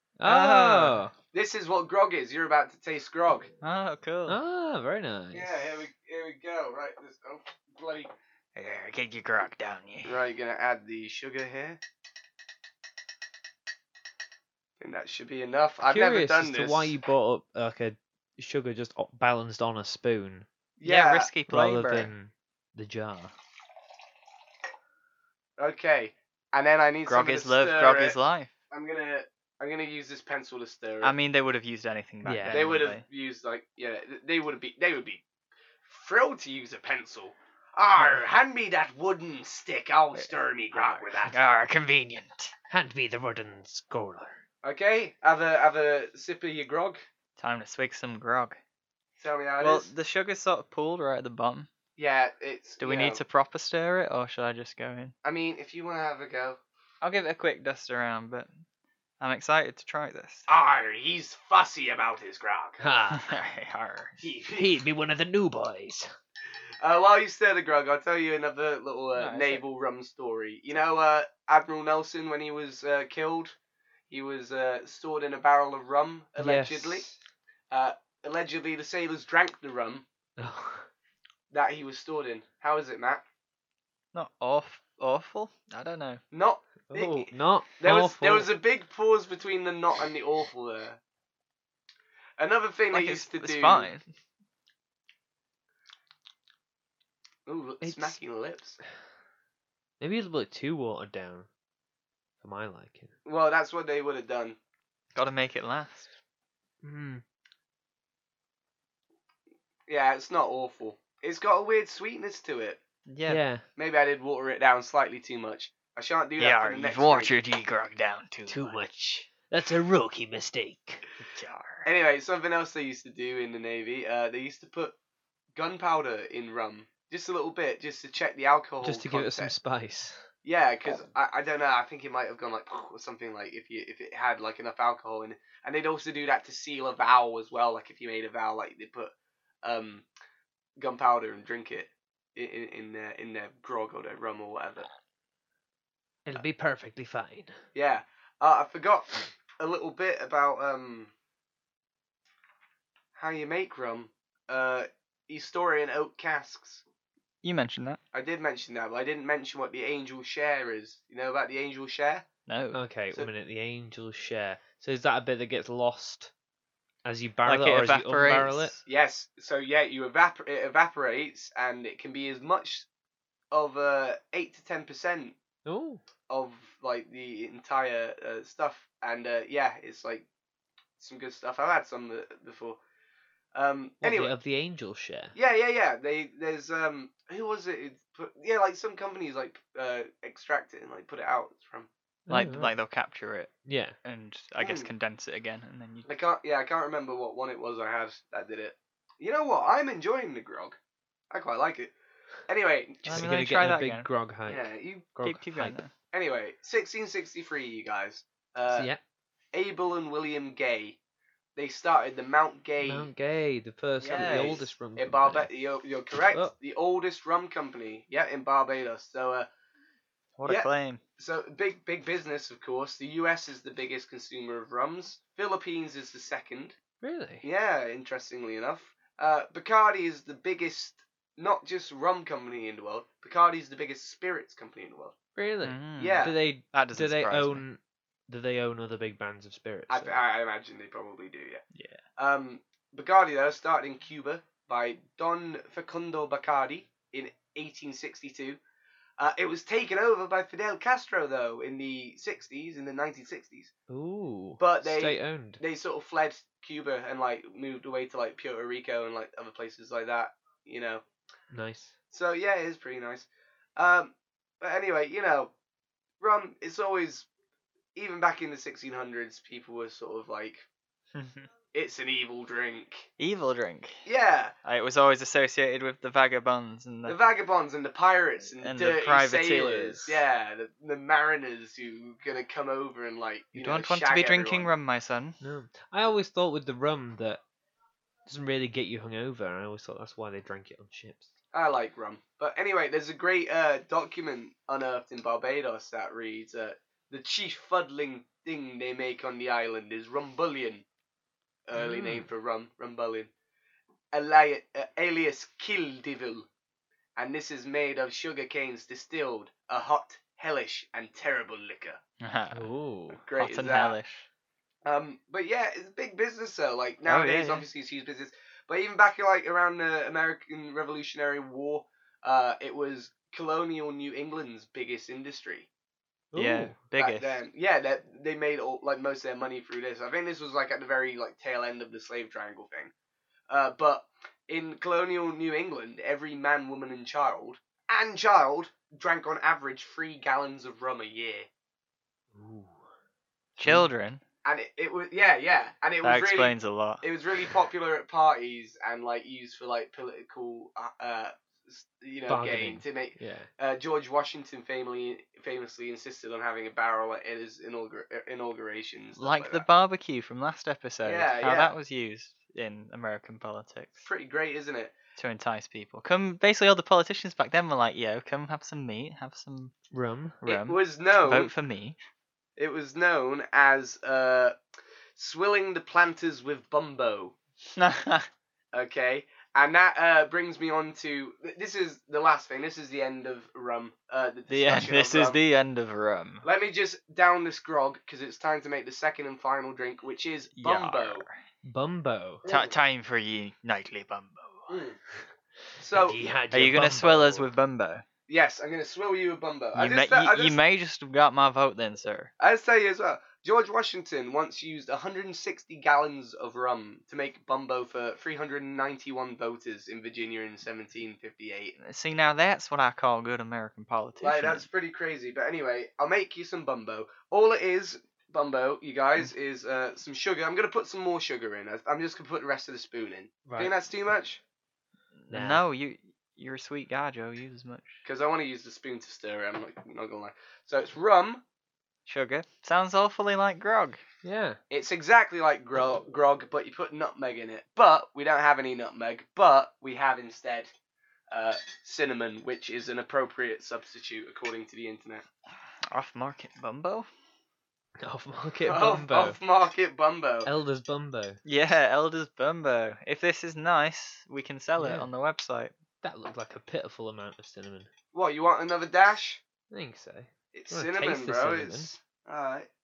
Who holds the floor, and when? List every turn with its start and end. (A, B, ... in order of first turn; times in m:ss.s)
0:00.2-0:01.1 A
0:00.2-0:01.0 B
0:01.3-0:03.5 C
0:03.6-0:04.4 B
0:04.3-0:05.8 A
0:05.3-0:08.1 C
0:08.5-0:10.2 B
0:10.0-0:11.8 C
0:14.8-0:17.0 C
0:15.8-0:20.4 A
0:20.8-0:21.3 C
0:20.8-0:22.1 B
0:21.5-0:23.3 A
0:25.6-0:28.2 C
0:27.0-0:28.5 B
0:28.7-0:31.1 C
0:31.0-0:33.0 B
0:32.2-0:32.8 A
0:32.5-0:35.2 C
0:35.8-0:41.4 C
0:40.1-0:42.5 B
0:42.7-0:44.4 A
0:44.6-0:47.0 C
0:47.4-0:48.6 B
0:49.2-0:49.9 C
0:49.6-0:51.7 B
0:52.0-0:53.2 C
0:52.8-0:55.1 B
0:55.2-0:56.6 C
0:57.0-0:58.6 B
0:59.2-1:00.5 B
1:00.5-1:02.8 C
1:02.8-1:03.3 A
1:03.1-1:04.3 B
1:04.2-1:04.7 C
1:04.4-1:06.1 A
1:06.8-1:13.6 C
1:09.1-1:09.6 B
1:14.1-1:17.1 C
1:16.4-1:17.2 A
1:17.7-1:20.0 C
1:20.4-1:20.9 A
1:21.5-1:23.2 C
1:24.1-1:26.2 B
1:26.3-1:31.0 C
1:26.9-1:28.5 A
1:32.4-1:33.9 C
1:32.9-1:34.1 B
1:37.4-1:38.8 C
1:37.8-1:38.2 A
1:40.0-1:41.5 A
1:42.4-1:43.1 A
1:43.2-1:44.6 C
1:45.1-1:46.1 B
1:46.8-1:47.2 A
1:49.9-1:52.8 C
1:53.1-1:53.4 B
1:53.3-1:53.6 A
1:53.8-1:57.3 C
1:56.4-1:58.8 B
1:58.5-2:01.1 A
2:01.3-2:01.9 B
2:01.8-2:05.0 C
2:05.5-2:09.5 C
2:08.8-2:10.3 A
2:10.4-2:20.0 C
2:20.8-2:24.9 C
2:26.2-2:27.6 A
2:27.7-2:31.1 C
2:33.1-2:36.8 C
2:37.4-2:38.0 B
2:38.1-2:42.2 C
2:42.5-2:42.8 B
2:42.7-2:46.3 A
2:47.0-2:48.7 A
2:47.4-2:48.8 B
2:48.8-2:52.9 C
2:53.5-2:55.4 C
2:55.6-2:56.0 A
2:56.3-3:00.2 C
3:01.0-3:02.8 C
3:03.5-3:04.3 C
3:04.0-3:05.3 A
3:05.3-3:11.9 C
3:12.3-3:12.7 A
3:12.3-3:13.5 B
3:13.6-3:14.0 A
3:14.0-3:16.1 B
3:14.6-3:14.9 C
3:16.0-3:20.8 C
3:21.3-3:21.9 C
3:22.5-3:23.2 C
3:23.0-3:24.1 B
3:23.1-3:25.8 A
3:24.5-3:25.1 C
3:25.2-3:25.9 B
3:26.1-3:28.9 C
3:28.7-3:29.0 A
3:29.5-3:31.0 C
3:31.6-3:33.1 C
3:32.8-3:35.5 A
3:34.0-3:34.6 B
3:34.0-3:39.5 C
3:40.4-3:41.0 B
3:40.4-3:46.8 C
3:47.0-3:47.4 A
3:47.4-3:55.2 C
3:55.4-4:00.2 A
3:55.6-3:57.6 B
3:56.0-3:56.4 C
3:59.9-4:01.6 C
4:01.7-4:02.0 B
4:02.2-4:08.6 C
4:09.2-4:13.7 C
4:13.9-4:15.6 A
4:14.6-4:21.0 C
4:21.5-4:21.9 A
4:22.1-4:25.5 C
4:26.2-4:27.3 C
4:27.9-4:30.6 C
4:31.1-4:31.5 B
4:31.7-4:33.1 C
4:33.2-4:34.0 B
4:34.0-4:34.5 C
4:34.6-4:37.2 B
4:37.0-4:44.7 C
4:38.6-4:40.2 B
4:43.5-4:45.4 B
4:45.4-4:47.4 A
4:48.2-4:51.3 A
4:51.5-5:00.8 C
5:01.7-5:03.3 C
5:01.7-5:02.3 A
5:04.1-5:06.5 C
5:07.2-5:12.0 C
5:12.2-5:12.7 B
5:12.5-5:13.2 A
5:13.1-5:14.0 C
5:13.4-5:14.2 B
5:14.8-5:25.7 C
5:17.1-5:17.6 A
5:26.3-5:26.8 A
5:26.4-5:27.4 B
5:27.0-5:32.9 C
5:33.5-5:41.5 C
5:42.3-5:42.8 A
5:43.6-5:44.2 B
5:43.6-5:43.9 A
5:44.4-5:59.6 C
5:46.0-5:47.5 B
5:52.3-5:53.5 A
5:59.2-6:04.0 B
6:01.0-6:01.7 C
6:04.0-6:04.9 C
6:05.2-6:09.7 B
6:09.9-6:10.4 A
6:10.4-6:12.0 B
6:10.4-6:11.5 C
6:12.6-6:14.6 C
6:15.2-6:17.3 C
6:17.8-6:18.3 B
6:18.7-6:25.4 C
6:24.5-6:26.4 B
6:26.4-6:31.2 C
6:30.6-6:31.4 B
6:31.6-6:32.4 A
6:32.4-6:32.7 C
6:32.5-6:34.8 B
6:34.7-6:35.0 C
6:35.8-6:36.2 C
6:35.9-6:37.5 A
6:36.5-6:38.0 B
6:38.3-6:40.6 C
6:39.7-6:42.3 B
6:42.4-6:51.7 C
6:51.8-6:54.6 B
6:54.2-7:04.4 C
7:03.4-7:03.7 A
7:05.2-7:08.0 B
7:05.3-7:05.6 A
7:08.0-7:11.4 C
7:12.0-7:14.0 B
7:14.2-7:14.6 A
7:14.7-7:20.7 C
7:21.3-7:25.2 C
7:25.9-7:27.1 B
7:28.0-7:29.4 A
7:28.6-7:30.5 C
7:30.4-7:31.4 A
7:31.4-7:35.7 B
7:34.8-7:35.1 A
7:36.0-7:37.9 A
7:38.1-7:39.4 C
7:39.7-7:42.0 A
7:40.5-7:42.7 C